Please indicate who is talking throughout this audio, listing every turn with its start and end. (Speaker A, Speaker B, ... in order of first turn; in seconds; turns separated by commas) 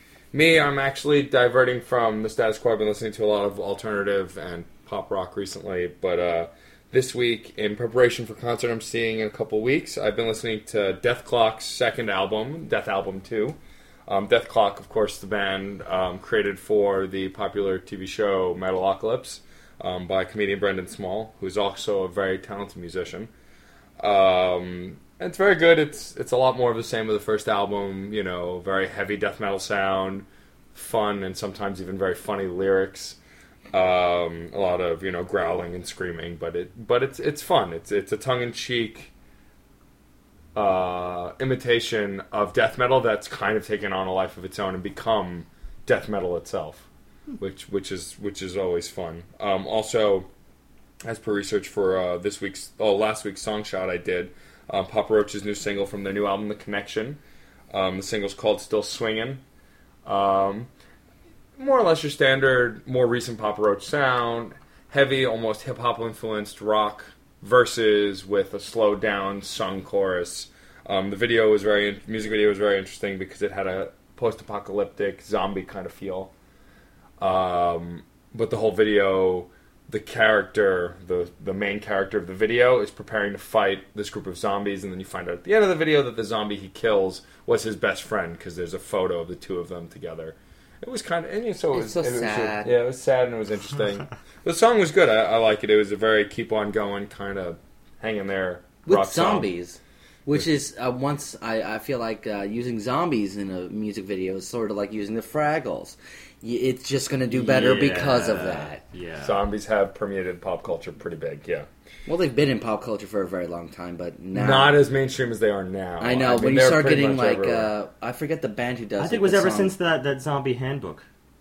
Speaker A: 0.3-23.3, Speaker A: 24.0-33.2, Speaker A: 33.7-39.1, Speaker A: 40.5-46.9, Speaker A: 47.4-50.3, Speaker A: 51.0-57.2, Speaker A: 57.7-59.4, Speaker A: 60.0-60.7, Speaker A: 61.6-76.3, Speaker A: 77.2-99.5, Speaker B: 91.7-92.7, Speaker B: 98.8-108.8, Speaker C: 107.3-109.4, Speaker A: 109.2-111.7, Speaker B: 112.0-114.7, Speaker A: 114.3-117.7, Speaker B: 116.0-119.7, Speaker C: 119.0-121.0